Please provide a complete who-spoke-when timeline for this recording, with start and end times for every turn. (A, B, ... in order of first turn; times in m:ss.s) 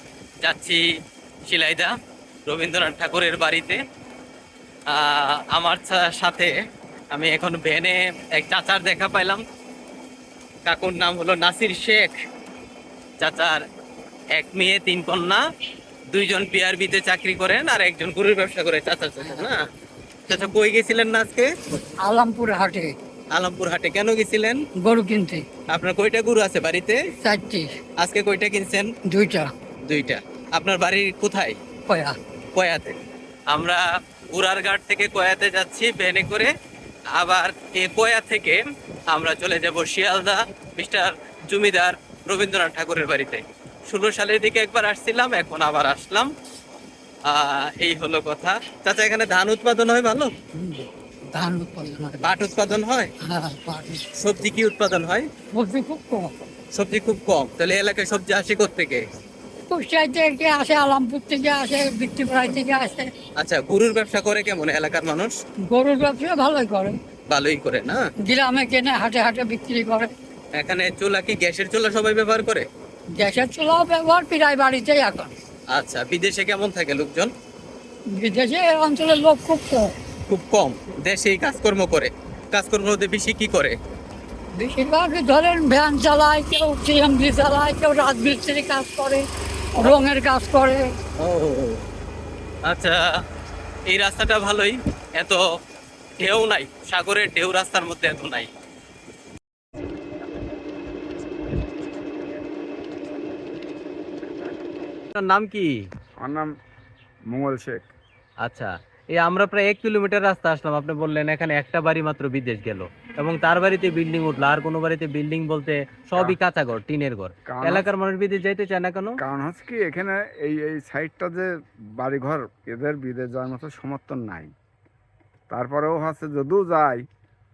0:00.4-0:00.9 A
0:01.5-0:01.9 A
0:02.4-0:03.8 A
0:04.9-0:06.6 A
0:07.1-0:09.4 A
0:10.6-0:12.2 A
0:13.2-0:13.6 A
0:14.3-0:15.4 A
0:16.1-0:19.7 A
0:20.3-0:21.5 A
0:22.0-0:22.9 B
0:23.3-0:24.6 A
0:24.8-0:25.4 B
0:25.7-0:27.0 A
0:27.2-0:27.7 B
0:28.0-0:28.9 A
0:29.1-0:29.5 B
0:29.9-0:31.6 A
0:31.9-0:32.2 B
0:32.5-0:33.0 A
0:33.5-0:36.5 A
0:37.1-0:46.3 A
0:47.3-0:50.3 A
0:50.6-0:52.2 B
0:52.2-0:53.1 A
0:53.3-0:54.0 B
0:54.1-0:55.3 A
0:55.5-0:56.3 B
0:56.7-0:59.0 A
0:59.7-1:03.1 B
1:03.4-1:05.3 A
1:05.7-1:07.0 B
1:07.3-1:08.0 A
1:08.3-1:10.1 B
1:10.6-1:12.7 A
1:13.2-1:15.3 B
1:15.7-1:17.3 A
1:18.2-1:19.9 B
1:20.2-1:23.8 A
1:24.6-1:29.2 B
1:29.8-1:30.8 B
1:31.2-1:31.8 A
1:32.7-1:33.0 A
1:33.9-1:35.4 A
1:36.2-1:38.5 A
1:45.1-1:45.7 A
1:46.2-1:46.5 C
1:47.3-1:47.9 C
1:48.4-1:59.2 A
1:57.5-1:57.9 C
1:59.2-2:04.5 C
2:05.5-2:07.0 C